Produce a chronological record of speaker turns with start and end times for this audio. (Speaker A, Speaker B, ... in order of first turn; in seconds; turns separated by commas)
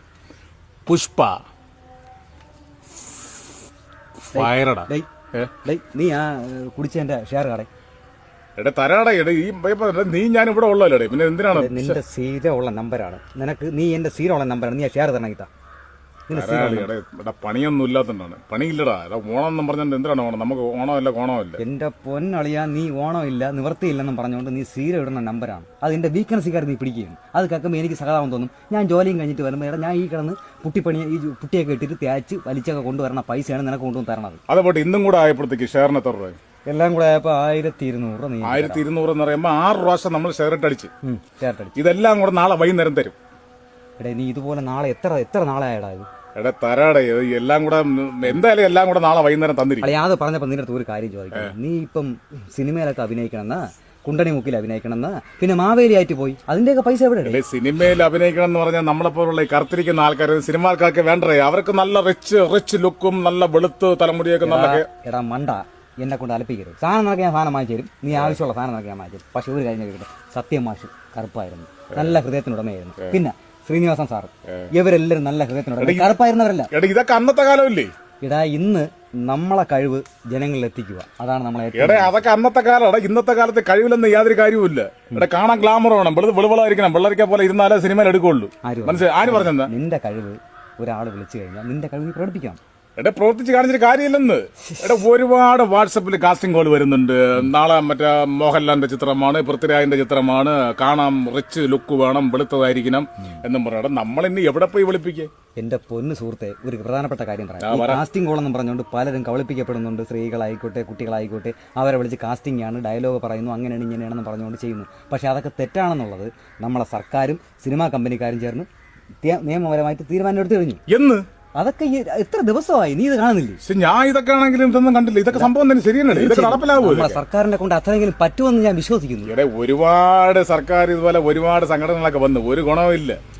Speaker A: 0.8-1.4, Speaker B: 4.3-5.1, Speaker A: 4.3-5.5, Speaker B: 5.6-7.7, Speaker A: 8.6-12.0, Speaker B: 11.5-15.5, Speaker B: 16.3-16.9, Speaker A: 16.3-21.6, Speaker B: 21.6-34.4, Speaker A: 34.5-36.4, Speaker B: 36.7-38.8, Speaker A: 38.4-40.9, Speaker B: 41.0-41.8, Speaker A: 41.8-43.1, Speaker B: 44.0-46.0, Speaker A: 46.3-49.9, Speaker B: 49.8-57.4, Speaker A: 57.2-64.9, Speaker B: 64.4-76.7, Speaker A: 71.9-72.2, Speaker A: 75.8-76.2, Speaker A: 76.7-77.9, Speaker B: 78.2-82.3, Speaker A: 81.7-89.7, Speaker B: 88.6-92.6, Speaker A: 93.0-105.3, Speaker B: 105.6-118.7, Speaker A: 107.6-108.0, Speaker B: 119.2-120.8, Speaker A: 120.9-121.2, Speaker B: 121.5-123.6, Speaker A: 123.6-127.2, Speaker B: 126.1-129.3, Speaker A: 129.3-133.2